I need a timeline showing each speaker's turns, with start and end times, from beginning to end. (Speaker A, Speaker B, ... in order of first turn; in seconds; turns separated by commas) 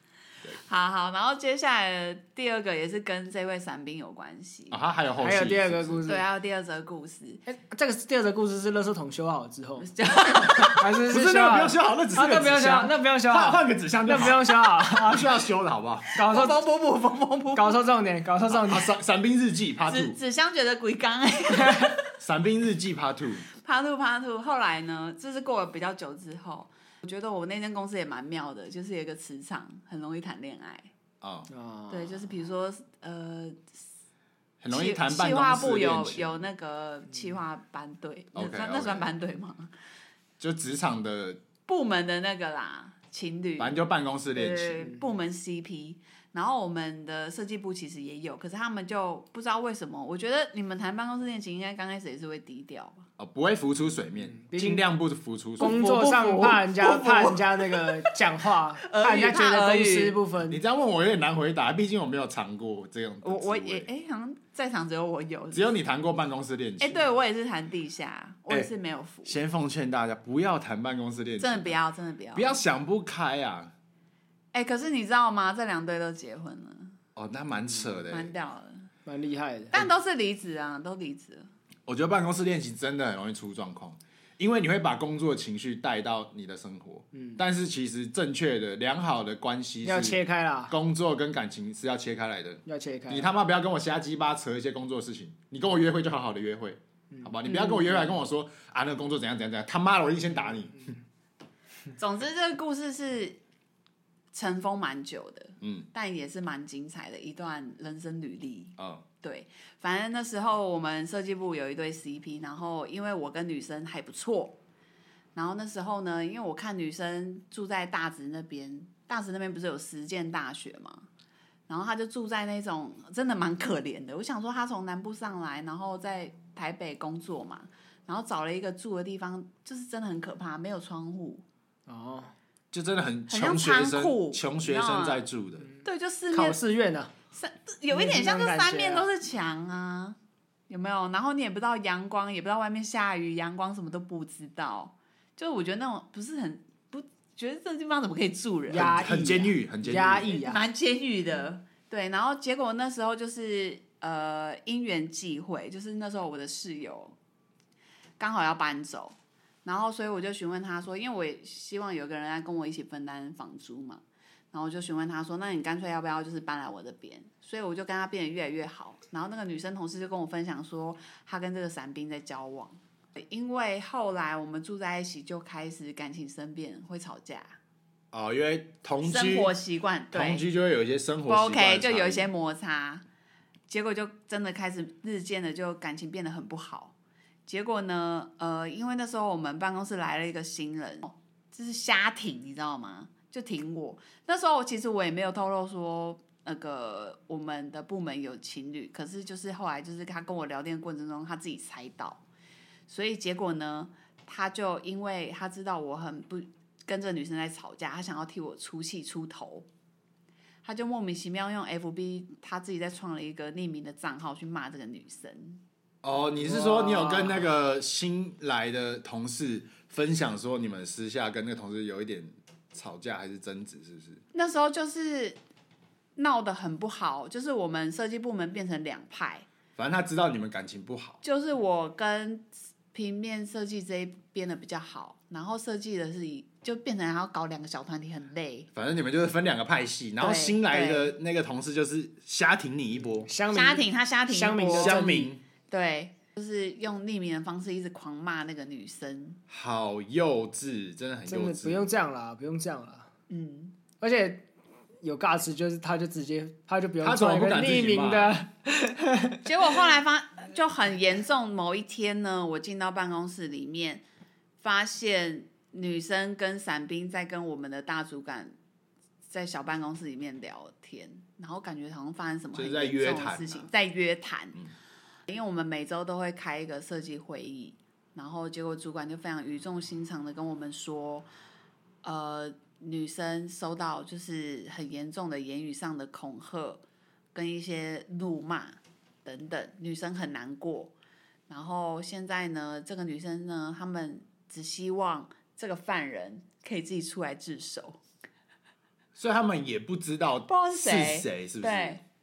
Speaker A: 0.6-4.8, Speaker B: 4.7-6.0, Speaker C: 5.2-6.2, Speaker A: 6.0-7.4, Speaker C: 7.5-9.9, Speaker A: 9.8-10.8, Speaker C: 10.8-15.3, Speaker B: 11.1-16.1, Speaker C: 16.1-16.6, Speaker A: 16.2-17.8, Speaker C: 17.5-18.9, Speaker B: 18.5-20.2, Speaker A: 19.9-22.1, Speaker C: 21.6-21.9, Speaker B: 22.2-23.4, Speaker A: 23.5-30.9, Speaker B: 31.2-31.5, Speaker C: 31.5-32.2, Speaker A: 31.9-33.8, Speaker B: 34.6-36.3, Speaker A: 34.7-39.7, Speaker B: 38.3-39.1, Speaker B: 40.4-41.4, Speaker A: 41.7-43.8, Speaker B: 43.6-44.8, Speaker A: 44.3-53.1, Speaker B: 53.2-57.3, Speaker C: 54.3-54.8, Speaker C: 55.6-60.6, Speaker A: 55.7-57.4, Speaker A: 58.8-60.2, Speaker B: 60.5-63.9, Speaker A: 63.2-65.7, Speaker B: 65.5-67.0, Speaker A: 66.8-69.4, Speaker B: 69.2-71.7, Speaker A: 71.4-72.5, Speaker B: 72.3-73.7, Speaker A: 74.5-77.0, Speaker B: 77.2-78.3, Speaker A: 78.1-78.9, Speaker C: 79.0-79.8, Speaker A: 79.7-81.5, Speaker B: 81.9-101.0, Speaker C: 89.8-90.7, Speaker C: 92.7-93.3, Speaker A: 102.0-103.4, Speaker A: 104.3-114.6, Speaker B: 105.6-105.9, Speaker B: 108.8-109.0, Speaker A: 115.3-121.1, Speaker A: 121.7-131.4, Speaker C: 131.9-132.3, Speaker B: 132.7-135.7, Speaker A: 133.3-135.2, Speaker A: 135.8-136.6, Speaker C: 136.3-137.1, Speaker A: 137.3-140.2, Speaker C: 137.9-139.1, Speaker A: 140.7-149.5, Speaker C: 148.7-150.6, Speaker B: 148.7-150.3, Speaker A: 150.1-157.1, Speaker A: 158.2-177.6, Speaker B: 178.1-179.5, Speaker A: 179.0-180.4, Speaker B: 180.1-182.3, Speaker A: 181.3-183.0, Speaker A: 183.7-186.9, Speaker A: 187.5-202.2, Speaker A: 202.9-209.7, Speaker A: 210.6-215.6, Speaker B: 216.0-224.2, Speaker C: 216.4-217.3, Speaker A: 224.3-225.4, Speaker A: 226.2-229.4, Speaker B: 229.8-231.2, Speaker A: 231.2-238.7, Speaker B: 238.7-243.3, Speaker A: 240.2-241.2, Speaker C: 243.2-245.3, Speaker A: 243.5-245.1, Speaker B: 244.7-245.4, Speaker A: 245.7-249.4, Speaker B: 249.5-251.9, Speaker C: 251.3-253.1, Speaker A: 253.3-253.7, Speaker C: 254.0-254.4, Speaker C: 255.0-259.4, Speaker B: 257.0-258.4, Speaker A: 259.4-264.0, Speaker A: 264.6-268.5, Speaker A: 269.3-274.6, Speaker B: 272.5-273.7, Speaker A: 275.3-281.3, Speaker A: 282.0-286.8, Speaker A: 287.3-290.9, Speaker A: 291.5-298.0, Speaker B: 299.1-302.0, Speaker A: 300.5-302.0